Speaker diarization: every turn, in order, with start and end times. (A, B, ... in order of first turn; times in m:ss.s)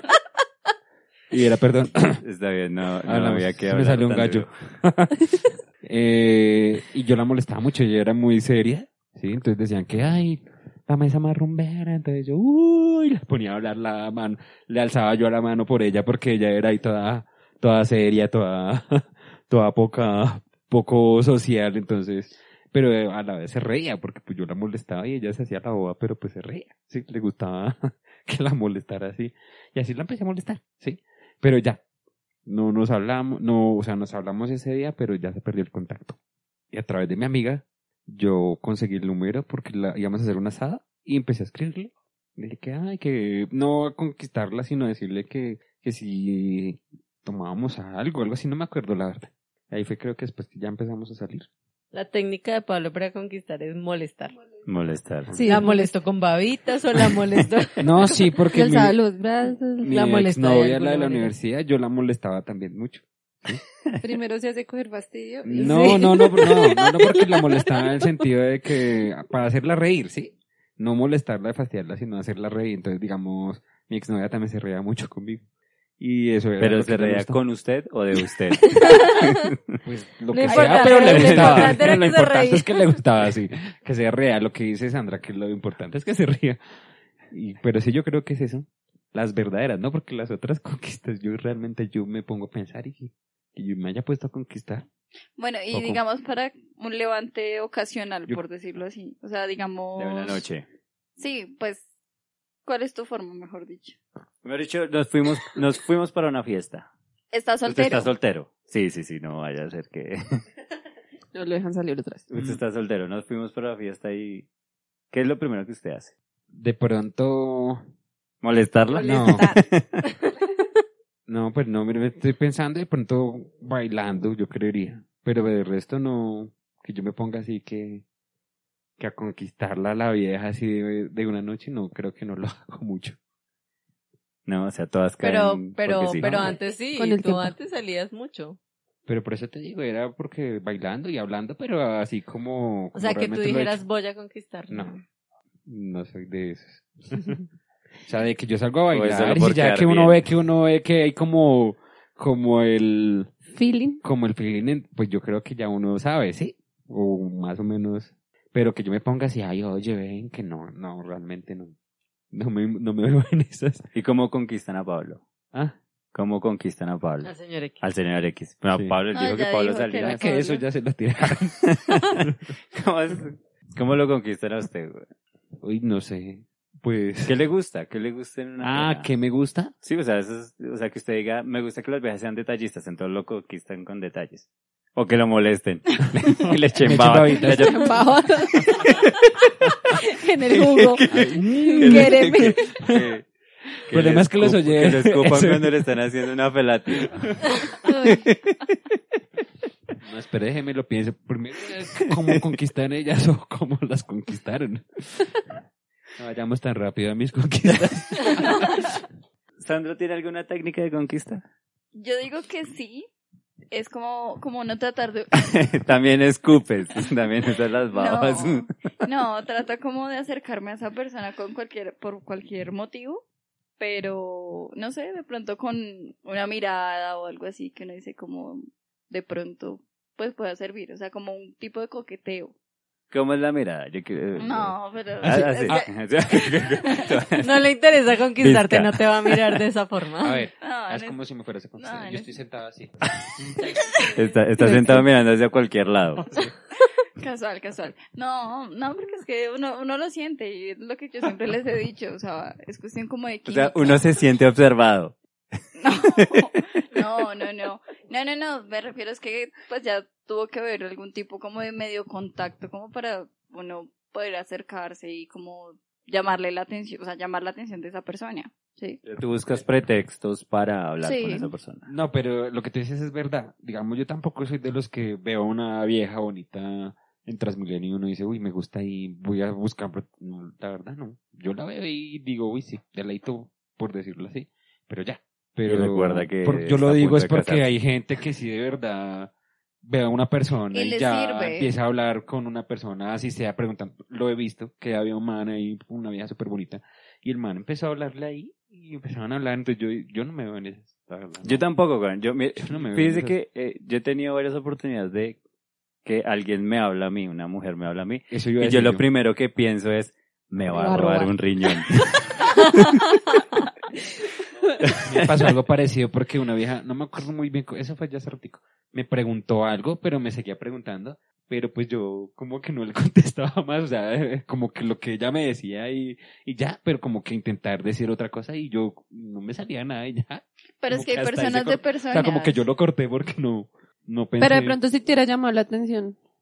0:01.3-0:02.2 A
0:02.2-0:04.5 B
0:03.1-0:31.8 A
0:32.5-0:36.2 A
0:36.7-0:51.5 A
0:51.9-0:54.4 C
0:54.7-0:55.4 B
0:55.3-0:55.9 D
0:55.4-0:58.2 C
0:57.8-0:59.0 A
0:58.5-1:00.0 D
0:59.8-1:03.6 A
0:59.8-1:01.3 C
1:04.0-1:06.6 D
1:05.4-1:15.4 A
1:05.6-1:06.4 C
1:16.0-1:17.4 A
1:16.6-1:19.6 B
1:19.8-1:26.6 A
1:20.3-1:22.8 C
1:20.6-1:21.3 D
1:21.0-1:21.9 B
1:27.3-1:34.9 A
1:35.4-1:40.4 E
1:35.7-1:36.0 A
1:40.0-1:40.7 B
1:41.2-1:41.9 E
1:42.6-1:44.0 E
1:44.4-1:46.9 B
1:47.3-1:48.1 E
1:47.7-1:50.4 B
1:51.3-1:52.3 D
1:52.3-1:54.5 B
1:55.1-1:56.1 B
1:56.5-1:57.8 A
1:58.4-2:00.0 B
1:58.9-1:59.6 D
1:59.0-1:59.5 A
2:01.3-2:08.0 A
2:09.0-2:13.2 A
2:14.5-2:16.5 B
2:15.2-2:18.6 C
2:16.2-2:16.6 A
2:16.7-2:17.6 D
2:19.1-2:23.8 A
2:23.0-2:25.0 C
2:25.7-2:27.4 A
2:28.1-2:33.3 A
2:28.9-2:30.2 B
2:33.6-2:34.0 D
2:34.0-2:41.7 A
2:42.3-2:43.9 A
2:44.0-2:45.2 B
2:46.1-2:50.4 B
2:47.2-2:47.8 C
2:49.1-2:50.6 E
2:50.0-2:52.4 A
2:51.6-2:55.1 B
2:55.6-2:57.3 A
2:57.2-2:59.1 B
2:58.6-2:59.7 A
2:59.8-3:08.0 B
3:06.1-3:07.9 A
3:07.5-3:09.0 D
3:09.9-3:12.6 D
3:10.5-3:13.3 B
3:11.1-3:13.1 A
3:13.9-3:18.6 B
3:13.9-3:15.8 A
3:17.0-3:17.6 A
3:17.9-3:18.2 D
3:20.0-3:25.4 A
3:22.1-3:22.4 B
3:26.2-3:28.9 A
3:29.6-3:31.4 B
3:31.9-3:33.1 E
3:33.7-3:35.3 E
3:35.4-3:38.7 B
3:37.9-3:43.2 E
3:43.8-3:52.5 E
3:53.1-3:57.6 B
3:54.4-3:55.9 E
3:55.2-3:55.9 A
3:57.4-4:00.4 C
3:58.4-3:59.4 B
4:00.2-4:03.8 A
4:00.6-4:01.2 E
4:01.8-4:02.3 E
4:03.8-4:04.1 E
4:04.2-4:06.3 B
4:04.6-4:05.0 D
4:07.2-4:14.0 E
4:13.5-4:15.2 B
4:15.8-4:29.0 E
4:16.0-4:17.0 B
4:29.1-4:31.9 B
4:31.0-4:31.5 E
4:31.9-4:49.3 A
4:45.7-4:47.7 B
4:49.8-5:01.6 A
4:50.7-4:51.7 E
5:01.4-5:05.4 B
5:02.6-5:03.4 A
5:06.0-5:13.1 B
5:08.3-5:09.0 A
5:10.7-5:11.3 D
5:14.9-5:15.3 B
5:15.0-5:34.8 A
5:30.8-5:32.6 E
5:34.4-5:36.2 D